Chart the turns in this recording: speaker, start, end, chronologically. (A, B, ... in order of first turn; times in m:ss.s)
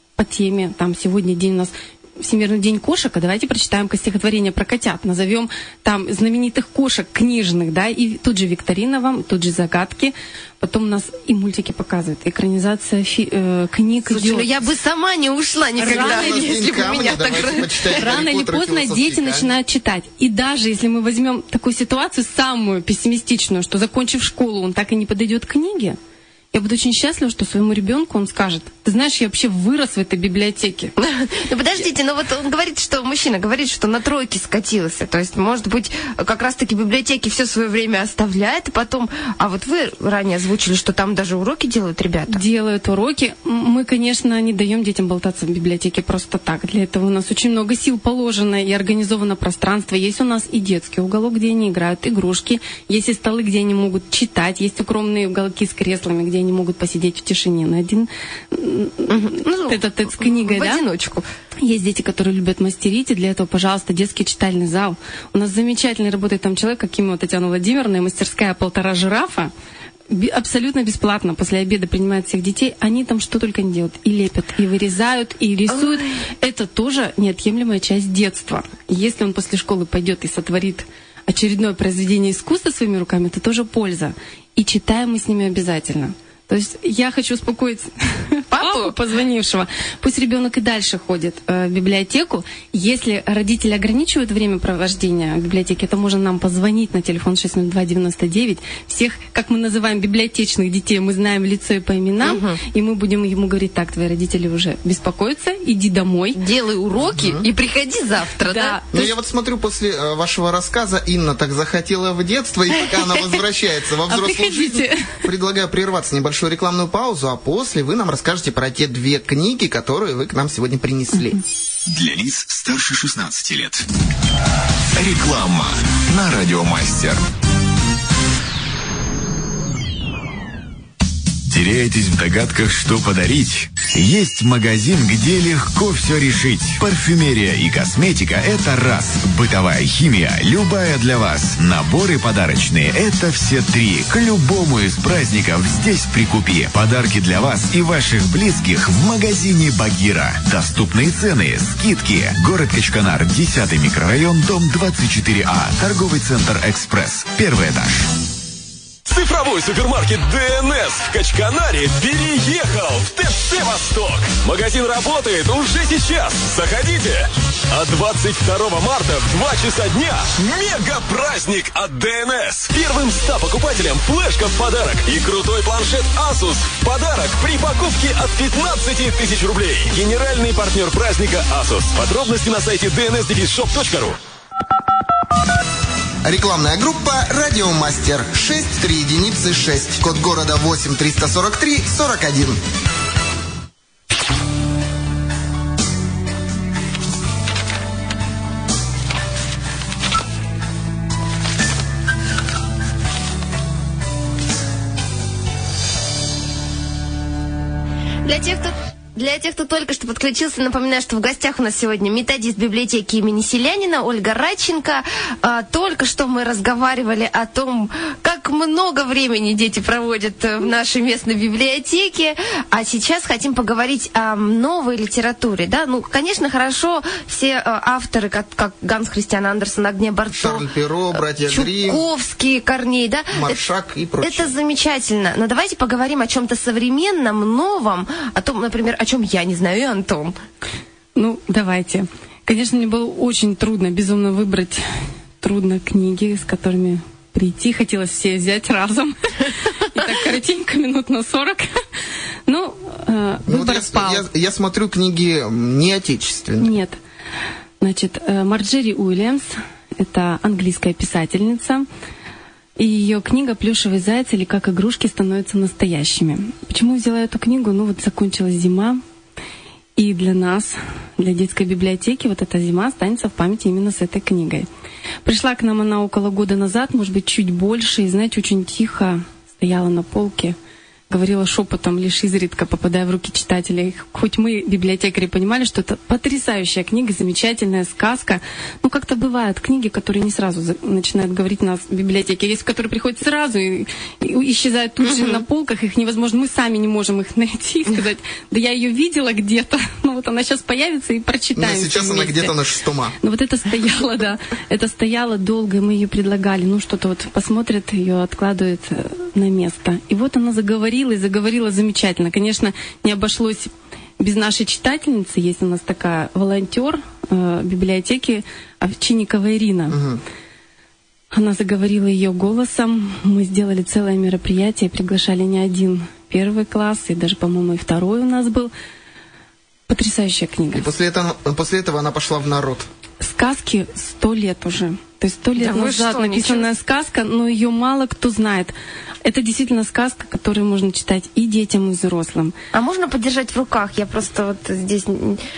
0:00.2-0:14.5 A
0:14.1-0:18.2 B
0:15.8-0:16.7 A
0:15.8-0:19.5 C
0:18.0-0:26.0 A
0:26.5-0:30.9 A
0:31.0-0:42.4 B
0:42.3-1:00.8 A
0:59.1-1:01.2 B
1:01.6-1:09.5 A
1:10.1-1:46.4 A
1:15.7-1:16.0 B
1:28.5-1:28.9 B
1:42.2-1:42.6 B
1:46.4-1:48.8 B
1:47.0-1:47.5 C
1:48.4-1:49.1 A
1:48.9-2:01.4 C
1:54.1-1:55.1 A
2:01.9-2:03.8 D
2:04.9-2:07.2 D
2:11.5-2:38.1 D
2:39.1-3:04.2 E
3:06.2-3:12.6 C
3:28.2-3:50.6 B
3:50.3-3:52.0 C
3:51.4-3:53.6 B
3:53.3-3:54.5 C
3:54.2-4:00.4 B
4:01.2-4:04.8 A
4:05.4-4:11.8 A
4:12.5-4:14.3 A
4:13.4-4:16.7 C
4:16.6-4:17.0 A
4:17.8-4:21.9 A
4:22.8-4:29.0 A
4:30.0-4:34.7 A
4:35.2-4:40.6 A
4:41.1-5:02.5 A
4:55.0-4:55.4 B
5:01.6-5:03.2 C
5:03.2-5:20.0 A
5:19.9-5:20.2 C
5:21.3-5:28.7 A
5:29.9-5:30.9 A
5:30.7-5:32.9 C
5:33.2-5:42.5 A
5:35.6-5:36.7 B
5:42.7-5:45.4 B